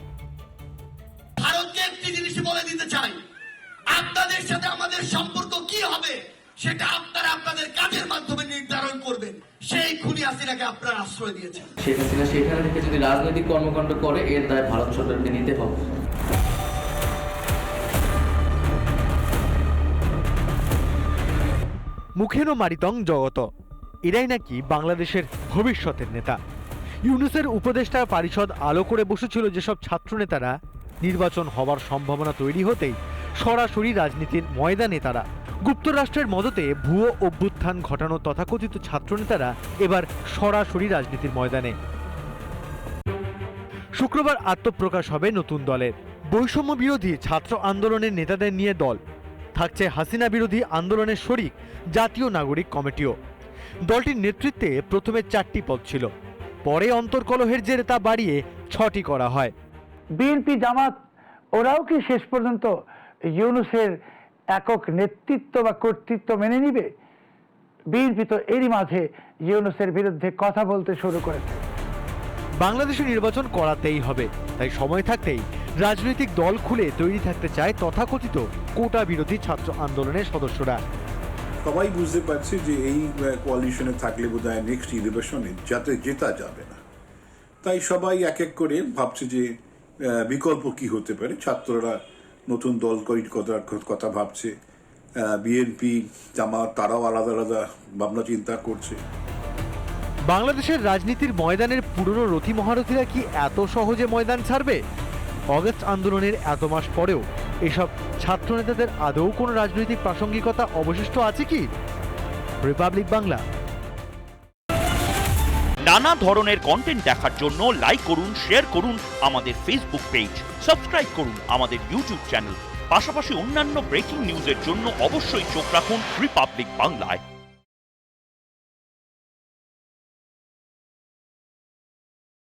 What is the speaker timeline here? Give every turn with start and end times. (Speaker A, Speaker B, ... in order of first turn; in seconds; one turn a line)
Speaker A: 1.4-3.2
Speaker A: 3.9-11.7
Speaker B: 11.8-15.8
Speaker C: 22.2-23.5
Speaker C: 24.1-26.4
Speaker C: 27.1-41.7
Speaker C: 44.0-49.0
Speaker C: 49.5-53.1
Speaker C: 53.9-56.1
Speaker C: 56.6-59.5
Speaker D: 60.2-61.0
Speaker D: 61.5-62.7
Speaker D: 63.3-63.9
Speaker D: 64.5-66.9
Speaker D: 67.9-71.6
Speaker C: 72.6-80.8
Speaker E: 81.6-86.8
Speaker E: 87.6-89.5
Speaker E: 90.0-94.5
Speaker E: 95.2-99.0
Speaker C: 100.3-104.8
Speaker C: 105.5-111.7
Speaker C: 112.6-113.4
Speaker F: 115.8-127.2